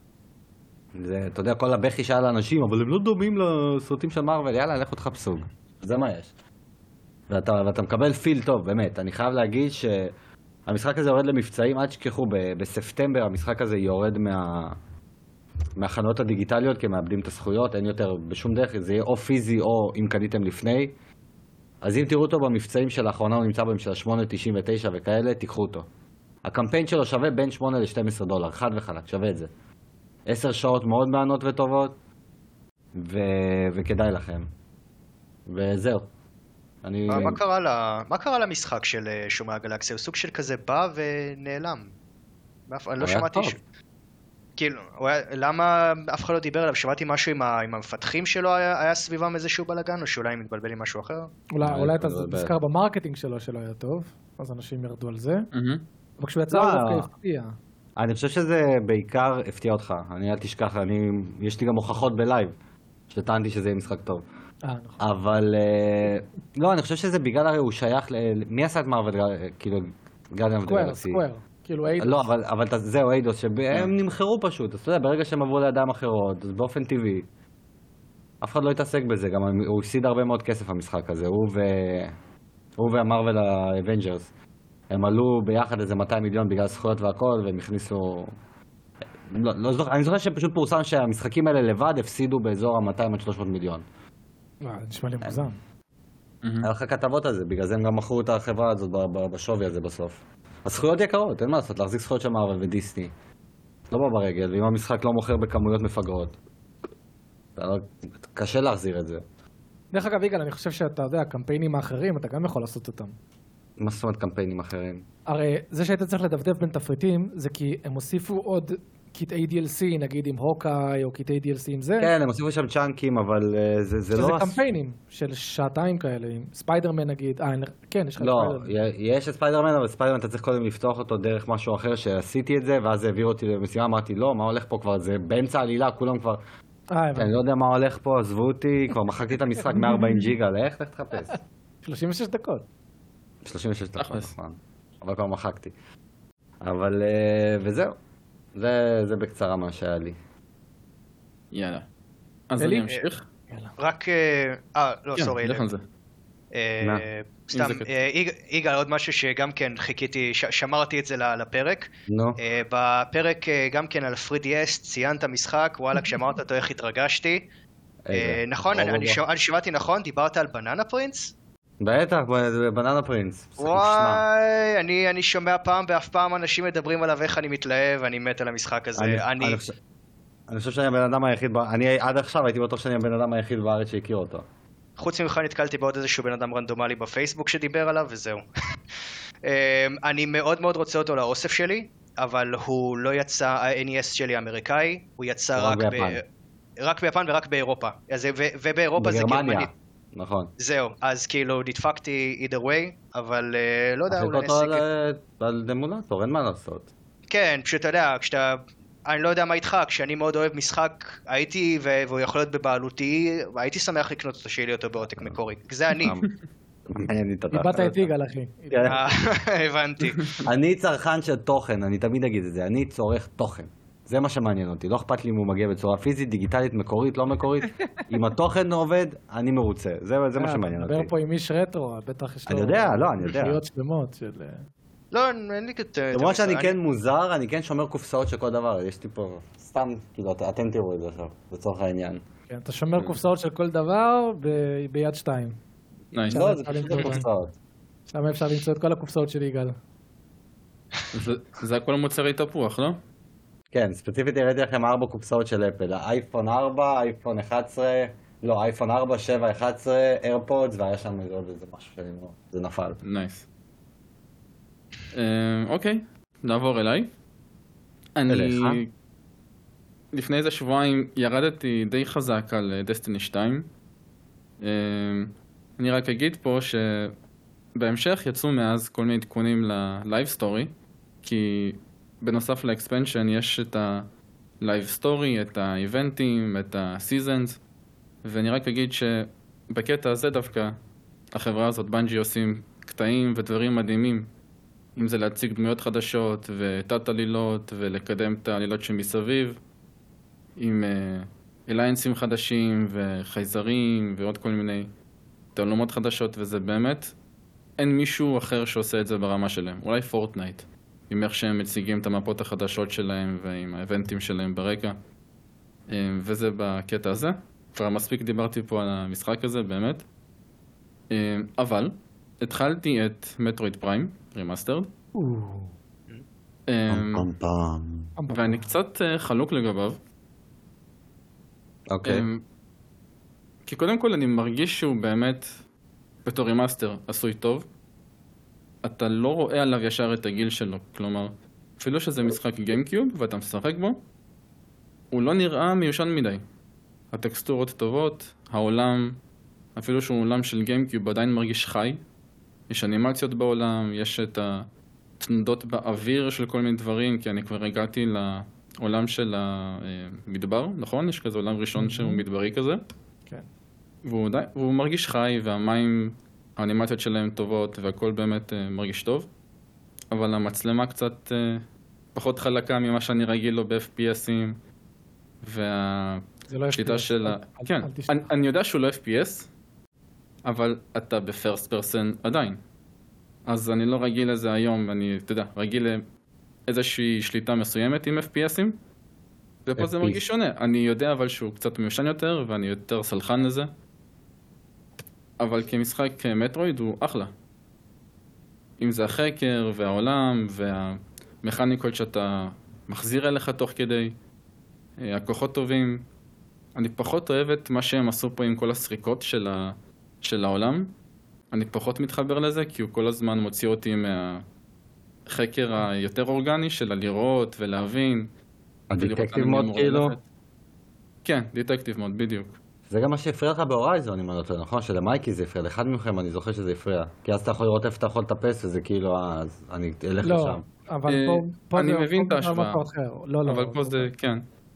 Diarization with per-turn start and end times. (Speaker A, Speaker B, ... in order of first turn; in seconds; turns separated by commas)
Speaker A: 1.0-6.3, Speaker A: 7.3-10.1, Speaker A: 10.7-14.8, Speaker A: 15.8-20.9, Speaker A: 21.8-25.9, Speaker A: 26.4-29.5, Speaker A: 30.3-31.9, Speaker A: 32.9-34.5, Speaker A: 35.5-36.1, Speaker A: 36.8-37.4, Speaker B: 37.1-41.9, Speaker B: 42.7-43.6, Speaker A: 43.0-43.5, Speaker B: 44.6-51.3, Speaker C: 51.5-55.5, Speaker A: 51.6-52.5, Speaker D: 55.5-55.8, Speaker C: 56.2-57.5, Speaker A: 56.5-57.1, Speaker A: 58.0-62.5, Speaker A: 63.1-64.2, Speaker C: 64.7-65.0, Speaker A: 65.0-71.2, Speaker C: 70.6-72.2, Speaker A: 72.0-77.3, Speaker A: 78.4-82.1, Speaker A: 82.8-84.3, Speaker A: 84.9-88.3, Speaker A: 89.3-93.8, Speaker C: 94.6-95.6, Speaker D: 96.4-96.7, Speaker A: 96.6-103.1, Speaker A: 103.9-106.3, Speaker A: 107.5-109.2, Speaker C: 109.9-113.1, Speaker A: 113.8-115.0, Speaker C: 115.3-122.1, Speaker A: 122.0-124.6, Speaker C: 124.1-128.7, Speaker A: 128.2-136.4, Speaker C: 136.9-137.3, Speaker A: 137.2-141.4, Speaker C: 139.7-140.3, Speaker C: 141.8-142.6, Speaker A: 143.4-145.7, Speaker D: 144.0-144.3, Speaker A: 146.6-147.9, Speaker A: 148.5-150.2, Speaker D: 151.5-151.9, Speaker D: 152.5-153.2, Speaker C: 152.6-152.9, Speaker B: 153.8-155.7, Speaker D: 155.2-155.8, Speaker B: 156.5-167.4, Speaker D: 157.5-157.9, Speaker A: 162.1-162.4, Speaker A: 168.1-169.2, Speaker B: 168.1-171.3, Speaker A: 171.8-174.2, Speaker B: 173.6-179.6, Speaker A: 179.0-179.7, Speaker A: 180.5-184.4, Speaker B: 185.0-188.4, Speaker B: 189.4-196.2, Speaker A: 195.6-196.2, Speaker B: 196.8-199.7, Speaker A: 199.0-200.5, Speaker B: 200.6-204.8, Speaker A: 204.1-206.9, Speaker B: 207.3-216.2, Speaker A: 216.0-216.3, Speaker A: 216.9-218.1, Speaker C: 217.5-219.0, Speaker A: 218.7-219.0, Speaker B: 218.8-220.4, Speaker A: 220.4-231.1, Speaker C: 230.3-234.6, Speaker A: 232.5-233.6, Speaker B: 235.1-236.8, Speaker A: 236.1-242.2, Speaker C: 242.5-245.6, Speaker D: 246.1-247.2, Speaker C: 246.3-247.3, Speaker A: 246.3-247.5, Speaker C: 248.1-249.7, Speaker D: 251.1-253.0, Speaker A: 253.7-263.0, Speaker D: 263.0-263.4, Speaker D: 265.1-267.1, Speaker D: 268.1-268.9, Speaker A: 268.3-268.8, Speaker D: 270.1-273.7, Speaker D: 274.6-277.1, Speaker D: 277.8-284.1, Speaker D: 284.6-287.6, Speaker D: 288.2-290.8, Speaker D: 291.3-294.3, Speaker D: 294.9-299.6, Speaker D: 300.6-304.9, Speaker D: 305.5-307.1, Speaker D: 307.8-315.0, Speaker D: 315.9-320.0, Speaker D: 321.1-324.9, Speaker C: 325.1-325.7, Speaker D: 326.7-327.3, Speaker A: 326.9-328.1, Speaker C: 328.2-328.7, Speaker D: 328.3-330.0, Speaker A: 331.9-332.2, Speaker D: 332.0-332.4, Speaker D: 333.6-335.6, Speaker D: 336.2-337.7, Speaker D: 338.8-344.0, Speaker D: 345.1-346.4, Speaker D: 347.1-349.2, Speaker D: 349.8-352.0, Speaker D: 352.7-354.7, Speaker D: 355.2-362.8, Speaker C: 361.8-362.2, Speaker D: 364.0-369.3, Speaker D: 370.1-374.6, Speaker D: 375.4-379.5, Speaker C: 376.5-378.3, Speaker D: 380.4-382.6, Speaker D: 383.5-386.0, Speaker D: 386.7-388.8, Speaker D: 389.6-393.7, Speaker A: 389.8-390.2, Speaker D: 395.4-397.3, Speaker D: 398.8-404.1, Speaker D: 405.0-406.0, Speaker D: 406.7-410.9, Speaker D: 411.5-414.4, Speaker D: 415.3-418.3, Speaker A: 418.9-420.1, Speaker D: 419.0-420.2, Speaker D: 421.2-422.5, Speaker A: 422.9-430.6, Speaker C: 430.2-434.1, Speaker D: 431.1-432.8, Speaker D: 433.4-434.4